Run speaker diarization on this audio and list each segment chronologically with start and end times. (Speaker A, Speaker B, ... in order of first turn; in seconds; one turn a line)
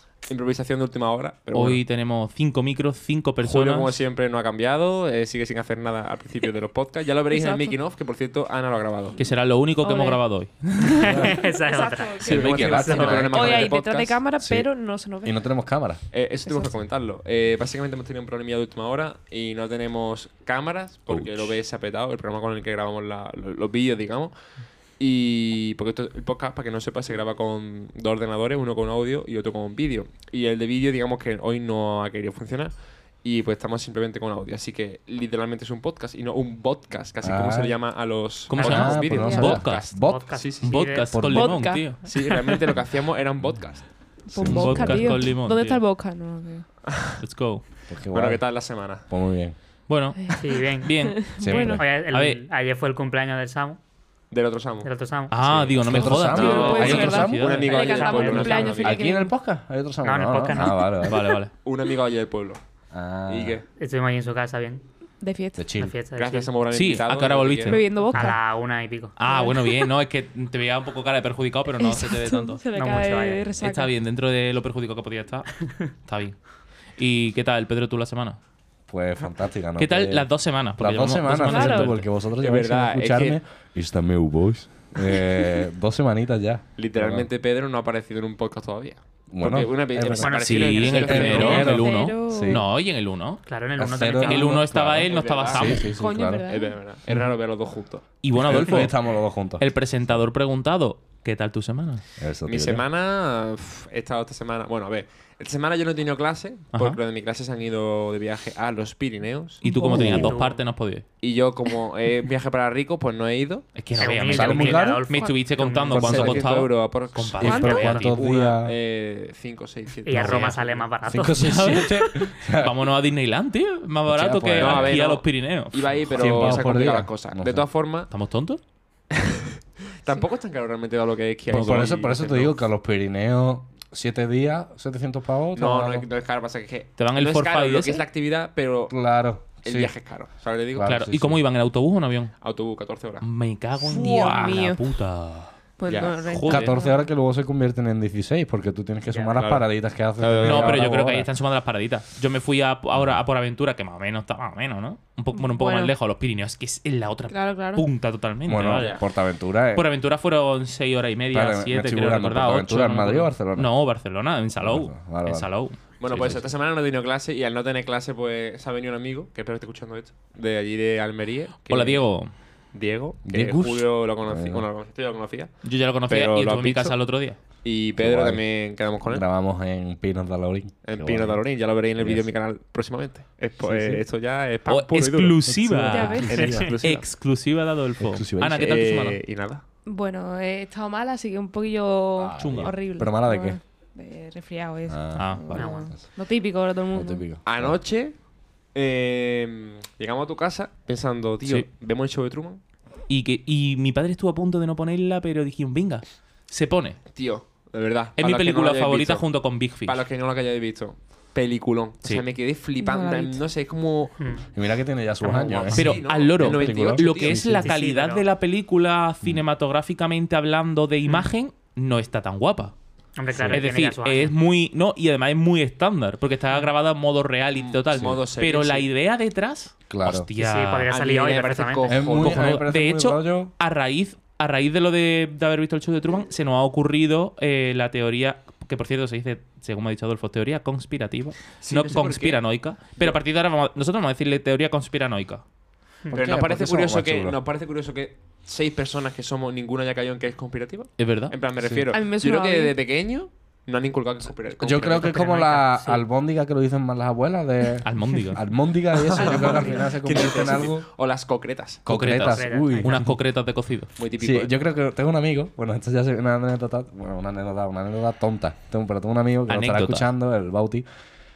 Speaker A: 0.3-1.8
Speaker B: 1.5-4.1
Speaker A: 3.4-9.2
Speaker C: 7.3-7.8
Speaker B: 9.2-11.2
Speaker C: 9.8-10.2
Speaker D: 11.0-13.2
Speaker C: 11.0-15.4
Speaker E: 11.1-11.3
Speaker A: 12.2-14.2
Speaker E: 12.2-13.8
Speaker B: 12.8-13.3
Speaker E: 14.4-14.7
Speaker E: 15.2-16.0
Speaker A: 16.1-24.4
Speaker C: 16.5-16.8
Speaker B: 21.1-21.5
Speaker A: 25.0-41.0
Speaker E: 37.2-37.8
Speaker B: 38.5-39.9
Speaker D: 38.5-39.2
Speaker E: 38.6-40.2
Speaker C: 39.1-39.6
Speaker D: 39.8-41.1
Speaker B: 40.6-42.5
Speaker E: 41.1-41.9
Speaker C: 41.3-42.8
Speaker A: 42.0-44.2
Speaker C: 44.2-46.7
Speaker E: 44.3-45.2
Speaker B: 44.4-45.8
Speaker A: 46.9-47.2
Speaker B: 47.2-47.6
Speaker E: 47.9-49.6
Speaker A: 48.1-49.1
Speaker B: 49.9-52.4
Speaker D: 50.4-53.8
Speaker C: 51.0-51.8
Speaker E: 51.4-51.8
Speaker A: 54.3-54.9
Speaker D: 54.8-55.5
Speaker B: 55.3-58.3
Speaker A: 55.4-59.1
Speaker E: 55.9-57.7
Speaker C: 56.4-59.3
Speaker E: 58.4-61.3
Speaker D: 60.0-60.9
Speaker B: 61.0-61.5
Speaker A: 61.6-62.6
Speaker E: 62.9-63.6
Speaker A: 63.3-63.6
Speaker D: 63.8-64.8
Speaker C: 65.2-65.7
Speaker E: 65.6-65.9
Speaker D: 65.8-66.5
Speaker A: 66.1-67.8
Speaker B: 66.7-67.9
Speaker C: 67.7-68.4
Speaker D: 68.1-69.2
Speaker B: 69.2-72.6
Speaker C: 69.2-69.9
Speaker C: 71.8-73.9
Speaker D: 72.7-73.5
Speaker B: 73.6-76.4
Speaker B: 77.0-78.4
Speaker E: 78.9-87.3
Speaker B: 79.8-82.1
Speaker C: 81.4-81.9
Speaker A: 82.3-83.4
Speaker A: 86.8-91.8
Speaker E: 89.3-92.6
Speaker D: 90.2-91.7
Speaker B: 90.4-93.4
Speaker C: 91.6-92.6
Speaker D: 93.5-94.7
Speaker E: 93.8-96.5
Speaker B: 94.1-95.8
Speaker A: 95.0-95.8
Speaker C: 95.8-96.8
Speaker A: 96.5-98.1
Speaker B: 98.2-99.0
Speaker E: 98.3-100.2
Speaker B: 99.6-102.0
Speaker E: 102.2-102.8
Speaker A: 102.5-109.6
Speaker B: 106.7-107.0
Speaker C: 109.6-110.3
Speaker B: 109.6-111.1
Speaker E: 109.9-110.3
Speaker D: 110.0-110.6
Speaker A: 111.2-113.7
Speaker B: 113.8-118.1
Speaker D: 114.0-116.4
Speaker E: 114.3-115.1
Speaker E: 115.9-116.5
Speaker A: 116.0-120.8
Speaker C: 117.4-117.9
Speaker E: 117.4-118.8
Speaker D: 117.6-118.1
Speaker D: 120.1-121.4
Speaker B: 120.2-120.6
Speaker E: 121.0-122.8
Speaker B: 121.4-126.7
Speaker E: 124.1-125.0
Speaker A: 124.6-128.1
Speaker E: 126.2-127.7
Speaker B: 128.1-128.6
Speaker A: 130.0-132.6
Speaker E: 131.5-136.1
Speaker A: 135.6-138.9
Speaker B: 137.0-138.1
Speaker E: 138.9-139.9
Speaker A: 139.6-141.1
Speaker E: 140.8-141.4
Speaker B: 140.8-142.3
Speaker A: 142.4-143.3
Speaker B: 143.2-146.8
Speaker C: 143.8-144.9
Speaker E: 143.9-144.6
Speaker C: 145.8-147.1
Speaker A: 145.9-146.3
Speaker E: 146.5-151.3
Speaker A: 149.4-149.7
Speaker A: 150.2-150.9
Speaker B: 150.4-159.0
Speaker E: 152.9-153.2
Speaker C: 155.3-155.9
Speaker C: 157.3-157.9
Speaker E: 158.5-159.9
Speaker A: 158.7-159.0
Speaker B: 159.7-166.3
Speaker E: 161.3-163.7
Speaker E: 164.6-165.5
Speaker A: 166.0-172.1
Speaker E: 166.1-166.5
Speaker B: 171.7-172.3
Speaker A: 172.7-175.5
Speaker E: 173.3-174.7
Speaker B: 175.6-177.4
Speaker A: 176.1-177.0
Speaker A: 177.6-179.2
Speaker E: 178.0-178.4
Speaker E: 179.0-182.3
Speaker A: 180.8-185.5
Speaker E: 183.6-184.0
Speaker B: 184.7-189.2
Speaker E: 185.4-186.8
Speaker C: 185.9-186.6
Speaker A: 186.2-187.1
Speaker D: 186.3-186.7
Speaker E: 188.0-188.7
Speaker A: 188.6-189.6
Speaker C: 189.9-197.3
Speaker E: 192.2-193.6
Speaker B: 192.4-192.7
Speaker E: 194.9-196.0
Speaker B: 195.2-195.7
Speaker D: 195.6-195.9
Speaker E: 196.9-197.8
Speaker A: 197.4-198.2
Speaker A: 198.7-202.6
Speaker B: 201.4-201.7
Speaker B: 203.1-207.0
Speaker A: 207.1-209.3
Speaker B: 208.2-210.1
Speaker A: 209.8-214.2
Speaker C: 212.8-213.4
Speaker D: 214.2-214.4
Speaker E: 214.5-217.7
Speaker A: 215.3-217.5
Speaker B: 215.7-222.7
Speaker D: 217.6-218.3
Speaker D: 223.2-224.3
Speaker E: 223.3-223.6
Speaker B: 223.5-230.9
Speaker A: 227.5-228.9
Speaker E: 229.9-230.3
Speaker D: 230.4-231.9
Speaker A: 230.9-232.6
Speaker E: 231.9-233.5
Speaker B: 232.1-245.4
Speaker A: 241.6-242.4
Speaker A: 246.1-255.4
Speaker E: 246.1-247.4
Speaker B: 251.0-251.3
Speaker E: 251.6-251.9
Speaker C: 251.9-252.8
Speaker E: 254.5-260.9
Speaker D: 255.1-256.0
Speaker B: 257.9-258.4
Speaker A: 259.0-261.8
Speaker E: 261.9-263.2
Speaker B: 261.9-263.9
Speaker D: 262.3-263.0
Speaker A: 264.0-264.5
Speaker E: 264.2-270.9
Speaker B: 269.5-270.1